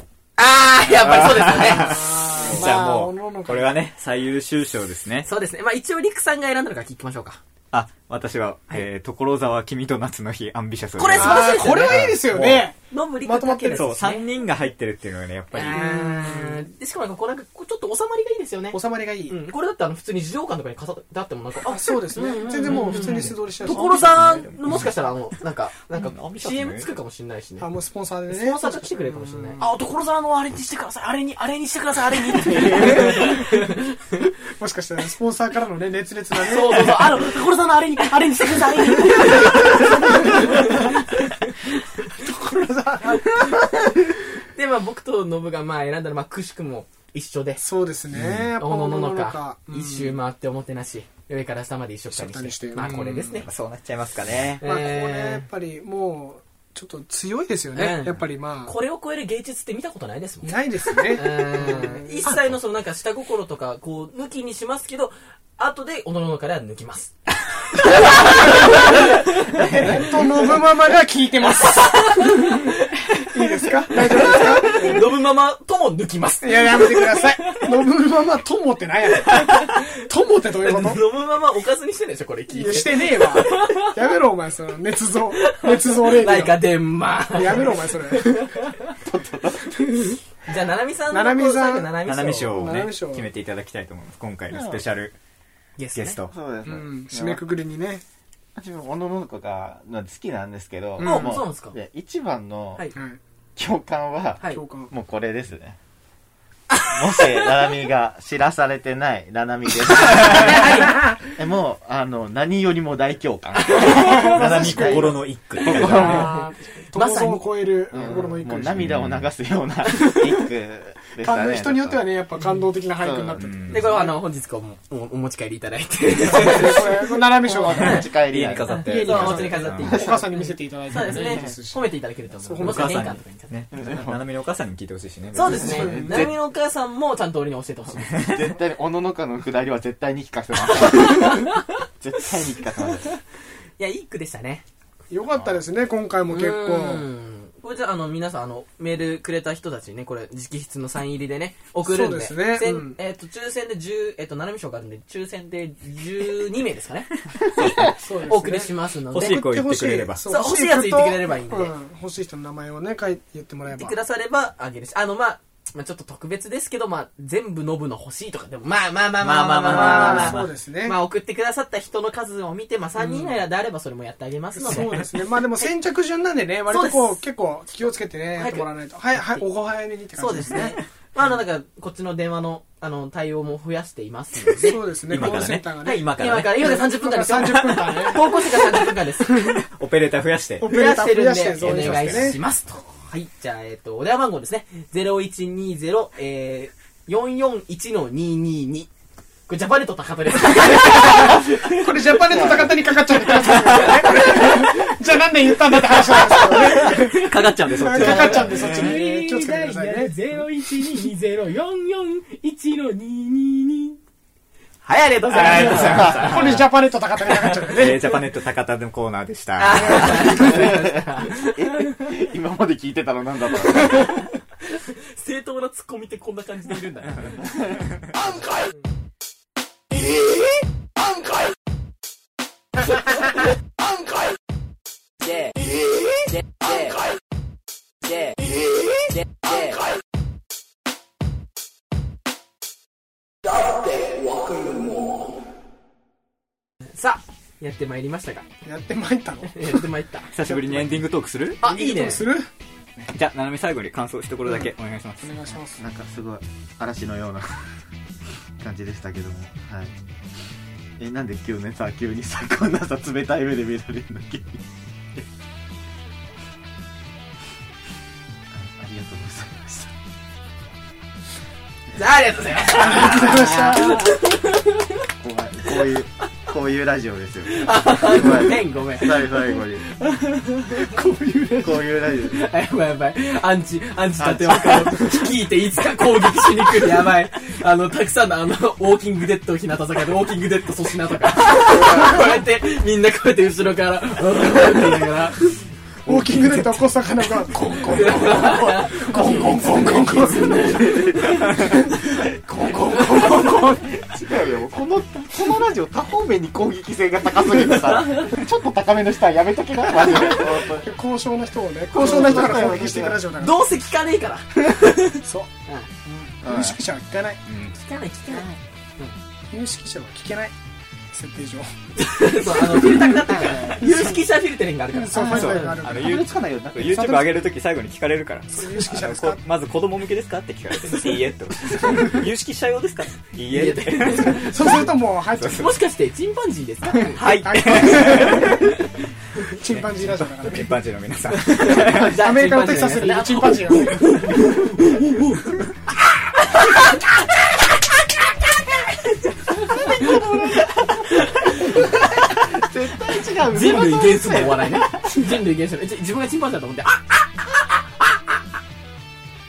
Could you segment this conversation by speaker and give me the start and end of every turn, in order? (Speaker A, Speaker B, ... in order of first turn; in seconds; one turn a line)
Speaker A: 0.4-2.5
Speaker B: 0.9-5.3
Speaker C: 1.6-3.7
Speaker A: 5.2-7.4
Speaker B: 7.7-12.7
Speaker A: 11.0-12.0
Speaker C: 11.1-14.1
Speaker A: 12.9-14.3
Speaker B: 13.7-15.9
Speaker A: 15.5-27.7
Speaker C: 15.6-16.6
Speaker C: 18.7-19.4
Speaker C: 21.6-24.5
Speaker B: 22.7-23.3
Speaker B: 23.9-24.9
Speaker B: 25.9-26.9
Speaker C: 27.6-29.7
Speaker A: 28.3-33.9
Speaker C: 32.5-33.7
Speaker C: 34.6-37.2
Speaker A: 36.4-41.6
Speaker C: 39.6-40.9
Speaker C: 42.1-43.6
Speaker A: 44.5-47.6
Speaker C: 47.6-50.2
Speaker B: 48.1-48.5
Speaker A: 48.6-53.5
Speaker C: 52.1-53.5
Speaker B: 53.4-54.6
Speaker A: 54.6-55.5
Speaker C: 54.6-58.7
Speaker A: 57.7-67.1
Speaker C: 60.4-62.4
Speaker A: 67.7-70.5
Speaker C: 67.9-72.6
Speaker A: 71.6-77.3
Speaker C: 73.3-75.0
Speaker C: 76.4-81.0
Speaker A: 79.3-79.9
Speaker A: 80.6-83.9
Speaker C: 82.5-86.7
Speaker A: 85.3-88.9
Speaker C: 87.3-88.6
Speaker D: 89.0-89.8
Speaker A: 90.0-92.8
Speaker C: 91.1-93.3
Speaker B: 92.0-95.1
Speaker D: 94.5-94.8
Speaker A: 95.8-96.2
Speaker B: 95.9-96.3
Speaker D: 96.3-97.4
Speaker C: 96.7-98.0
Speaker D: 98.5-102.8
Speaker C: 101.0-101.3
Speaker A: 101.0-101.8
Speaker C: 102.9-103.2
Speaker D: 103.5-105.8
Speaker C: 104.5-104.9
Speaker D: 106.9-116.3
Speaker A: 110.0-111.2
Speaker A: 113.6-114.3
Speaker C: 113.8-118.8
Speaker B: 113.8-116.3
Speaker A: 115.8-117.5
Speaker D: 117.9-122.0
Speaker B: 118.8-119.2
Speaker A: 119.9-120.2
Speaker C: 121.2-124.1
Speaker D: 123.0-123.9
Speaker B: 123.4-124.0
Speaker A: 123.7-127.2
Speaker C: 126.2-128.1
Speaker D: 127.3-129.2
Speaker A: 127.7-128.1
Speaker B: 128.0-130.1
Speaker A: 128.7-133.5
Speaker C: 128.8-131.8
Speaker D: 129.8-130.1
Speaker D: 131.0-131.6
Speaker C: 132.4-133.1
Speaker B: 132.6-136.3
Speaker D: 133.7-134.2
Speaker A: 135.3-138.4
Speaker D: 135.4-136.3
Speaker C: 135.5-136.3
Speaker D: 138.2-143.2
Speaker A: 140.6-141.8
Speaker A: 143.8-144.6
Speaker C: 145.1-147.1
Speaker A: 146.3-159.4
Speaker C: 151.8-153.0
Speaker B: 157.6-157.9
Speaker C: 157.9-163.9
Speaker B: 159.1-160.2
Speaker A: 160.3-161.7
Speaker A: 163.7-175.0
Speaker B: 169.2-170.4
Speaker C: 169.7-171.0
Speaker C: 173.0-173.4
Speaker C: 174.6-180.8
Speaker A: 176.7-177.2
Speaker A: 178.4-179.4
Speaker A: 180.2-189.6
Speaker B: 184.4-186.4
Speaker C: 184.6-188.8
Speaker B: 189.3-190.7
Speaker C: 190.6-192.4
Speaker A: 190.6-198.9
Speaker B: 191.7-192.2
Speaker A: 199.5-202.6
Speaker C: 200.7-210.1
Speaker D: 202.3-202.7
Speaker A: 203.4-204.9
Speaker A: 205.8-207.3
Speaker B: 206.6-208.9
Speaker A: 207.9-214.0
Speaker A: 214.8-216.7
Speaker C: 215.3-218.2
Speaker B: 215.5-216.7
Speaker D: 215.6-216.3
Speaker A: 217.3-217.8
Speaker B: 217.7-220.3
Speaker A: 219.6-221.7
Speaker C: 219.7-220.7
Speaker D: 220.3-224.2
Speaker A: 224.7-227.5
Speaker D: 227.4-227.7
Speaker A: 244.6-244.9
Speaker A: 246.9-248.5
Speaker C: 248.6-249.9
Speaker A: 249.5-250.3
Speaker B: 250.3-251.6
Speaker C: 250.4-251.1
Speaker A: 251.6-252.3
Speaker C: 251.6-253.1
Speaker B: 253.1-255.4
Speaker C: 255.2-255.8
Speaker D: 255.8-257.7
Speaker D: 258.6-260.0
Speaker D: 261.0-264.6
Speaker D: 268.5-269.9
Speaker A: 271.9-275.0
Speaker C: 272.7-274.1
Speaker D: 275.2-279.9
Speaker A: 277.4-279.4
Speaker A: 280.0-295.6
Speaker D: 281.6-282.4
Speaker D: 284.2-285.2
Speaker C: 296.0-300.7
Speaker A: 297.9-304.0
Speaker D: 298.1-310.9
Speaker A: 307.7-308.4
Speaker C: 309.9-313.7
Speaker D: 311.9-313.2
Speaker A: 311.9-312.3
Speaker A: 313.4-315.9
Speaker C: 315.2-315.5
Speaker C: 316.0-317.4
Speaker D: 316.4-316.8
Speaker B: 317.5-317.7
Speaker A: 317.7-319.1
Speaker D: 318.3-318.6
Speaker C: 319.5-320.5
Speaker C: 321.1-321.7
Speaker A: 322.0-325.8
Speaker D: 323.3-323.7
Speaker C: 323.6-324.2
Speaker C: 324.9-326.3
Speaker B: 325.1-334.8
Speaker D: 325.9-327.1
Speaker C: 326.8-327.4
Speaker C: 328.5-329.4
Speaker A: 331.7-332.0
Speaker C: 331.8-332.2
Speaker A: 333.5-334.8
Speaker C: 334.1-335.7
Speaker B: 335.4-335.7
Speaker A: 335.4-337.2
Speaker B: 337.1-338.8
Speaker C: 337.2-338.7
Speaker A: 337.9-338.5
Speaker C: 339.4-340.7
Speaker B: 339.7-342.2
Speaker A: 341.3-345.6
Speaker C: 341.8-344.2
Speaker A: 346.5-347.0
Speaker A: 349.0-352.0
Speaker D: 351.6-355.2
Speaker A: 353.5-357.4